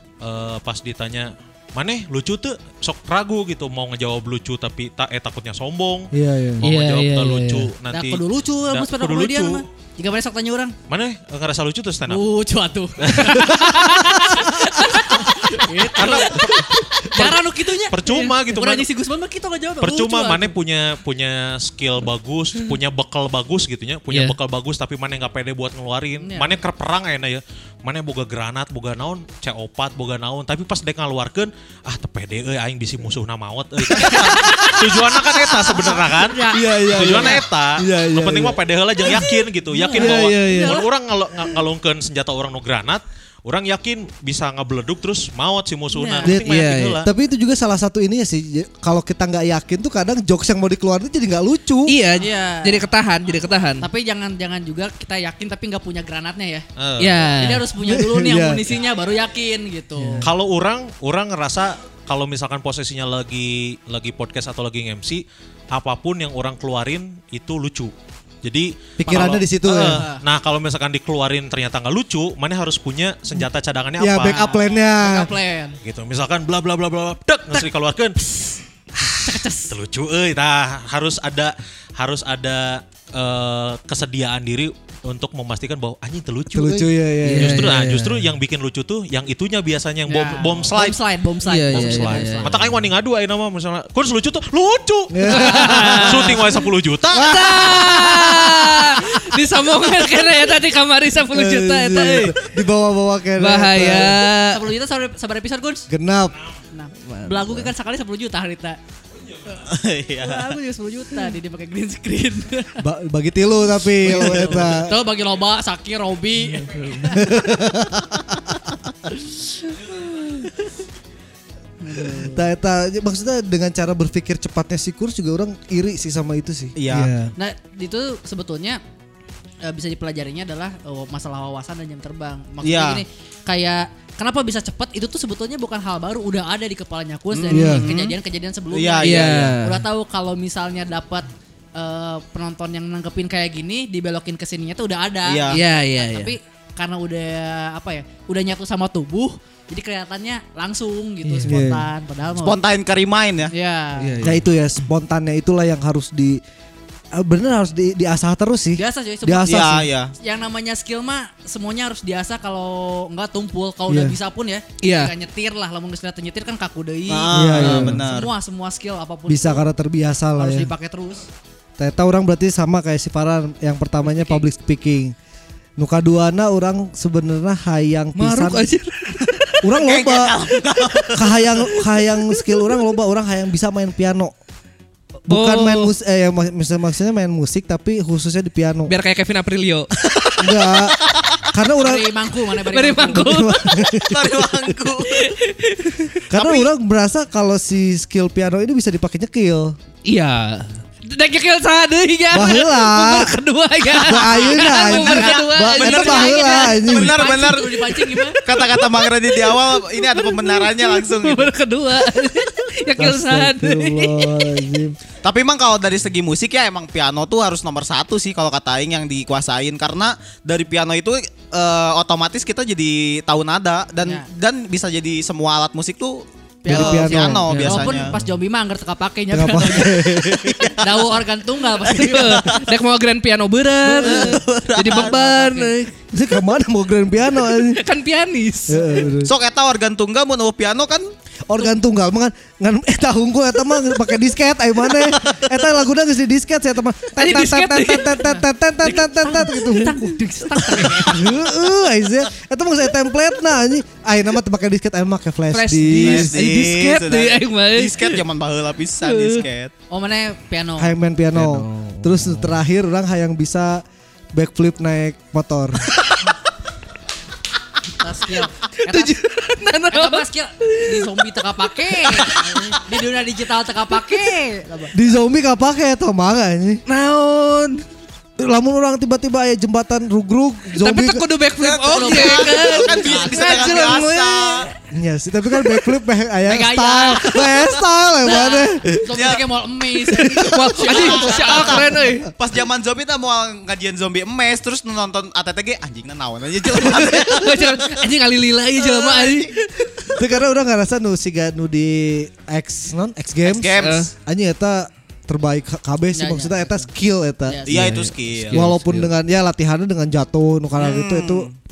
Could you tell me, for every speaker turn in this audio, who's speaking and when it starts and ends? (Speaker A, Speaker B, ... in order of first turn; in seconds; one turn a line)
Speaker A: 0.2-9.6
Speaker B: 6.1-6.6
Speaker C: 6.6-7.7
Speaker D: 7.9-10.8
Speaker A: 10.9-12.2
Speaker D: 12.1-20.6
Speaker A: 13.0-13.6
Speaker C: 13.4-15.2
Speaker A: 15.7-17.3
Speaker C: 16.0-16.3
Speaker C: 17.1-17.4
Speaker A: 17.9-18.9
Speaker C: 18.1-18.3
Speaker A: 19.8-47.1
Speaker D: 26.2-26.6
Speaker C: 34.0-34.8
Speaker D: 34.1-34.6
Speaker D: 35.2-37.4
Speaker B: 36.5-38.6
Speaker D: 39.0-40.9
Speaker C: 39.9-40.8
Speaker D: 45.9-46.3
Speaker B: 46.2-52.0
Speaker C: 46.3-47.0
Speaker C: 51.9-53.9
Speaker D: 52.2-52.9
Speaker D: 53.8-56.6
Speaker A: 56.8-57.2
Speaker C: 57.0-57.7
Speaker D: 57.3-60.3
Speaker B: 57.8-58.6
Speaker A: 60.2-74.4
Speaker B: 69.0-70.0
Speaker D: 69.0-70.2
Speaker B: 74.0-75.3
Speaker D: 74.2-75.8
Speaker A: 75.8-91.0
Speaker D: 79.2-79.7
Speaker B: 86.5-87.8
Speaker C: 87.2-88.3
Speaker D: 90.0-92.6
Speaker C: 91.5-92.6
Speaker A: 91.7-98.0
Speaker B: 95.1-96.6
Speaker C: 95.3-96.4
Speaker B: 97.1-99.2
Speaker C: 97.1-102.5
Speaker B: 101.2-104.2
Speaker C: 103.4-104.7
Speaker D: 104.4-105.9
Speaker B: 105.9-106.4
Speaker D: 106.7-108.8
Speaker C: 107.0-107.7
Speaker A: 109.2-109.7
Speaker E: 109.7-110.5
Speaker D: 110.2-112.8
Speaker B: 112.8-115.0
Speaker D: 114.0-117.3
Speaker C: 116.5-117.3
Speaker B: 117.1-118.3
Speaker D: 121.8-122.5
Speaker B: 122.1-127.3
Speaker E: 126.7-127.1
Speaker D: 127.4-128.8
Speaker D: 129.6-152.6
Speaker E: 132.6-133.0
Speaker E: 137.3-138.2
Speaker B: 137.5-137.9
Speaker E: 138.7-139.6
Speaker C: 139.0-139.8
Speaker E: 145.2-145.6
Speaker C: 145.5-146.3
Speaker C: 151.2-151.7
Speaker B: 151.4-151.9
Speaker E: 152.4-153.5
Speaker D: 153.5-154.2
Speaker C: 154.0-154.4
Speaker B: 154.2-156.4
Speaker B: 157.1-159.9
Speaker D: 158.8-169.7
Speaker E: 159.4-160.1
Speaker B: 163.9-164.2
Speaker C: 164.8-165.1
Speaker E: 167.1-168.3
Speaker B: 167.3-168.1
Speaker B: 169.3-170.7
Speaker D: 170.4-171.3
Speaker B: 171.8-175.1
Speaker D: 174.0-174.4
Speaker B: 175.8-178.7
Speaker C: 178.2-179.7
Speaker B: 179.6-180.4
Speaker E: 179.8-181.8
Speaker B: 181.1-184.3
Speaker C: 182.1-182.7
Speaker B: 185.3-188.9
Speaker C: 185.3-185.9
Speaker C: 188.9-189.9
Speaker B: 190.4-191.0
Speaker E: 191.1-191.4
Speaker B: 191.5-192.2
Speaker D: 191.8-193.4
Speaker C: 192.6-194.1
Speaker B: 193.1-194.4
Speaker E: 194.1-195.3
Speaker C: 195.0-196.2
Speaker B: 196.3-199.8
Speaker D: 196.4-196.7
Speaker C: 200.1-206.4
Speaker B: 202.3-203.3
Speaker B: 203.9-207.2
Speaker D: 204.2-208.4
Speaker E: 204.7-211.5
Speaker C: 208.3-214.7
Speaker B: 213.0-215.0
Speaker E: 215.2-228.1
Speaker D: 224.0-224.3
Speaker D: 226.6-232.5
Speaker B: 226.7-227.5
Speaker C: 227.5-228.3
Speaker B: 229.3-230.7
Speaker E: 229.9-231.1
Speaker C: 231.9-235.9
Speaker E: 231.9-232.7
Speaker B: 233.9-234.3
Speaker D: 234.0-235.7
Speaker E: 234.0-235.1
Speaker B: 236.1-237.8
Speaker C: 237.5-239.1
Speaker B: 238.7-239.3
Speaker E: 239.2-241.1
Speaker B: 241.5-250.2
Speaker C: 247.2-248.3
Speaker C: 248.8-250.0
Speaker D: 249.2-251.4
Speaker C: 250.6-251.0
Speaker B: 250.7-256.4
Speaker C: 255.5-258.2
Speaker E: 256.0-259.7
Speaker C: 259.0-259.4
Speaker D: 259.9-260.9
Speaker B: 260.8-263.8
Speaker C: 261.3-262.6
Speaker B: 264.3-265.9
Speaker D: 268.0-269.1
Speaker C: 268.9-272.8
Speaker D: 269.9-274.9
Speaker B: 274.9-276.8
Speaker C: 276.9-277.8
Speaker B: 278.4-281.2
Speaker C: 280.8-284.7
Speaker D: 281.6-284.0
Speaker E: 281.9-284.7
Speaker B: 284.9-289.0
Speaker D: 286.4-291.9
Speaker E: 289.1-289.4
Speaker C: 290.2-292.3
Speaker E: 290.8-298.1
Speaker B: 291.8-292.3
Speaker C: 296.7-300.1
Speaker E: 298.8-299.5
Speaker B: 300.1-307.7
Speaker E: 303.4-304.1
Speaker C: 303.8-304.1
Speaker D: 306.1-306.9
Speaker D: 307.5-307.8
Speaker E: 307.7-308.6
Speaker C: 307.7-309.1
Speaker B: 308.5-311.5
Speaker E: 310.8-311.5